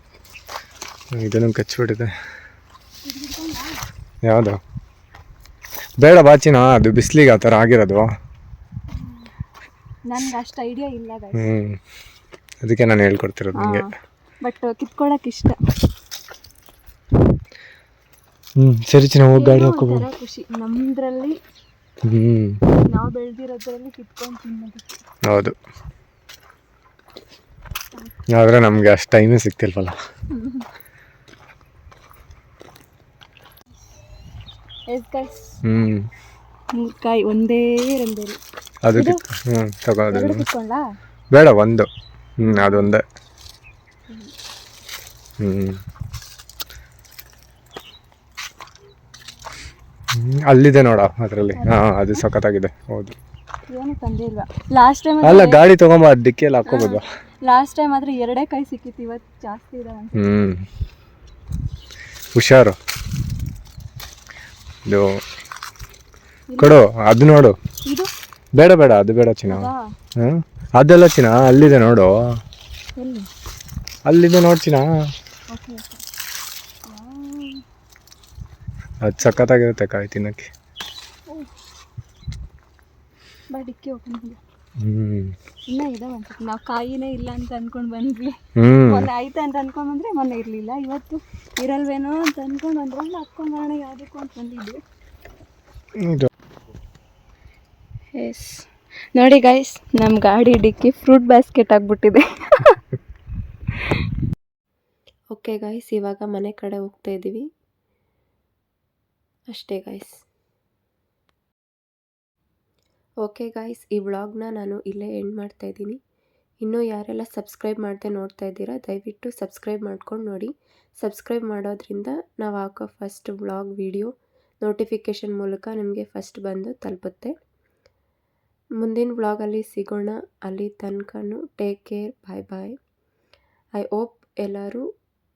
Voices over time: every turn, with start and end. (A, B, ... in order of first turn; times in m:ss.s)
0:01.2-0:02.1 A
0:03.0-0:03.8 B
0:04.2-0:04.6 A
0:06.0-0:08.1 A
0:10.1-0:11.5 B
0:11.4-0:11.8 A
0:12.6-0:13.8 A
0:13.6-0:15.6 B
0:18.6-0:20.0 A
0:19.3-0:21.4 B
0:22.0-0:22.6 A
0:22.7-0:25.0 B
0:25.2-0:25.6 A
0:28.3-0:30.0 A
0:30.3-0:30.6 B
0:34.9-0:35.5 B
0:35.6-0:36.1 A
0:36.7-0:38.4 B
0:38.8-0:40.4 A
0:38.9-0:39.2 B
0:40.1-0:40.8 B
0:41.3-0:41.9 A
0:42.4-0:43.0 A
0:42.4-0:42.9 B
0:45.4-0:45.8 A
0:50.2-0:53.2 A
0:51.5-0:52.2 B
0:53.7-0:55.6 B
0:55.2-0:57.0 A
0:56.6-1:00.3 B
1:00.2-1:00.6 A
1:02.3-1:02.8 A
1:06.5-1:06.8 B
1:06.6-1:07.6 A
1:08.6-1:12.1 A
1:09.5-1:09.8 B
1:13.0-1:13.3 B
1:14.0-1:14.8 A
1:15.5-1:16.0 B
1:16.9-1:17.6 B
1:19.0-1:20.5 A
1:23.5-1:24.4 B
1:24.8-1:25.3 A
1:25.7-1:34.8 B
1:28.6-1:29.1 A
1:36.0-1:36.3 A
1:38.2-1:42.8 B
1:45.3-1:47.5 C
1:49.5-1:50.1 C
1:53.2-1:56.0 C
1:56.6-2:07.3 C
2:08.8-2:12.7 C
2:13.8-2:14.8 C